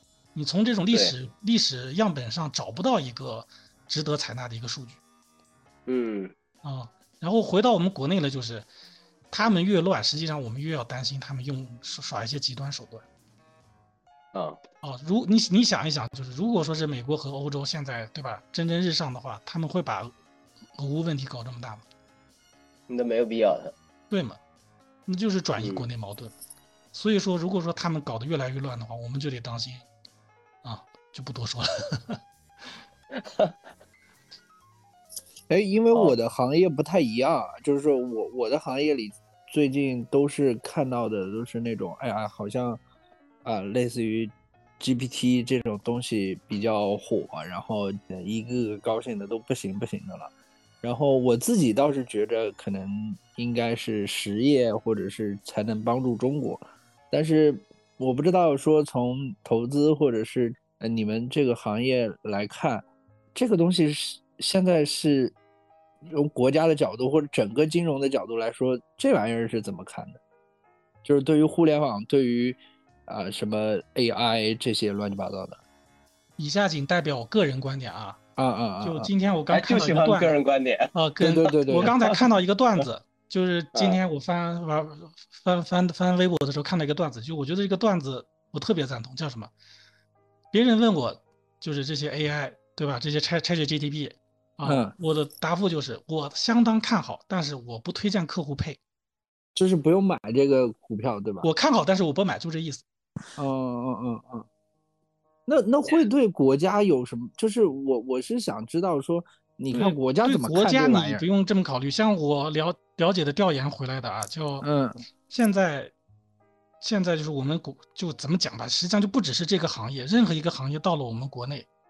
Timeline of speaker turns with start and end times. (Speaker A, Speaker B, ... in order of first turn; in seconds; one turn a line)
Speaker A: 0.3-5.0
Speaker B: 5.9-6.3
Speaker A: 6.6-8.7
Speaker A: 9.3-13.1
Speaker B: 14.3-14.6
Speaker A: 14.8-20.1
Speaker A: 20.8-21.8
Speaker B: 22.9-23.7
Speaker A: 24.1-24.4
Speaker A: 25.1-26.3
Speaker B: 25.6-25.9
Speaker A: 26.9-29.9
Speaker A: 30.6-32.2
Speaker B: 33.2-33.5
Speaker C: 35.5-42.8
Speaker C: 43.4-50.3
Speaker C: 50.8-65.4
Speaker C: 66.1-70.2
Speaker C: 71.0-75.6
Speaker A: 76.4-78.2
Speaker C: 78.4-79.1
Speaker A: 78.8-80.4
Speaker B: 79.5-80.9
Speaker A: 80.9-89.5
Speaker C: 81.2-81.9
Speaker B: 81.8-82.1
Speaker A: 90.5-98.8
Speaker C: 94.7-94.9
Speaker C: 99.5-101.5
Speaker A: 101.4-102.8
Speaker C: 103.3-104.5
Speaker C: 105.5-111.2
Speaker A: 109.7-114.7
Speaker C: 114.6-115.0
Speaker A: 115.3-115.9
Speaker A: 116.8-121.7